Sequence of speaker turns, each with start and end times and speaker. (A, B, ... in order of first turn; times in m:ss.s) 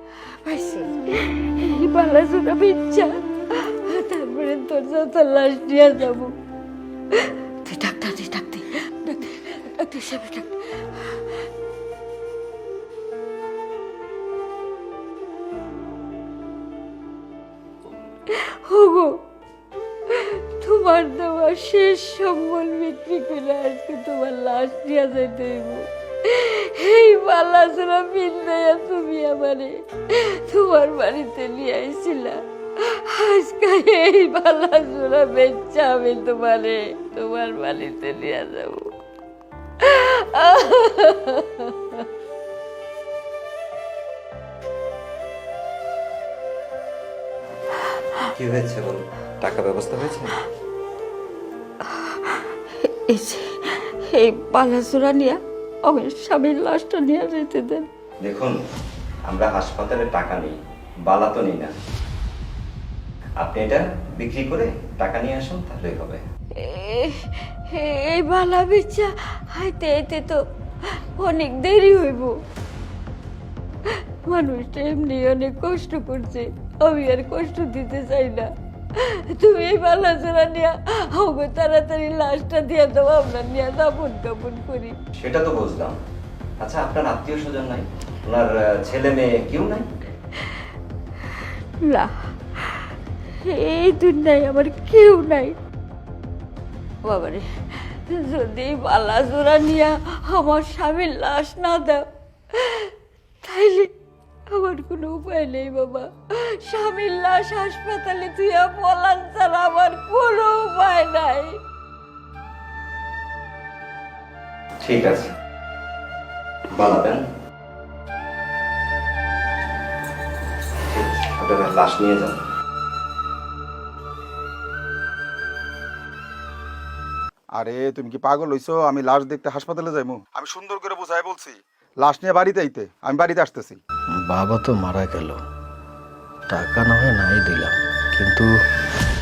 0:00.4-0:06.3 A
0:07.1-0:11.2 A
0:18.3-0:19.2 A
0:20.1-0:38.9 A
0:39.8-0:42.0 A
0:48.3-0:50.3 B
0:51.8-0:57.9 A
0:58.2-0:58.6 B
0:59.3-1:00.6 B
1:01.1-1:01.7 B
1:03.4-1:06.2 B
1:06.5-1:10.4 A
1:11.2-1:12.3 A
1:14.2-1:25.0 A
1:25.2-1:26.0 B
1:26.6-1:29.9 B
1:31.4-1:35.6 A
1:37.0-1:42.0 A
1:42.5-1:42.9 A
1:43.4-1:43.9 A
1:44.5-1:51.6 A
1:54.8-1:55.3 B
1:56.7-1:57.2 B
2:00.9-2:02.4 B
2:07.6-2:13.8 C
2:14.3-2:15.4 D
2:16.5-2:18.5 D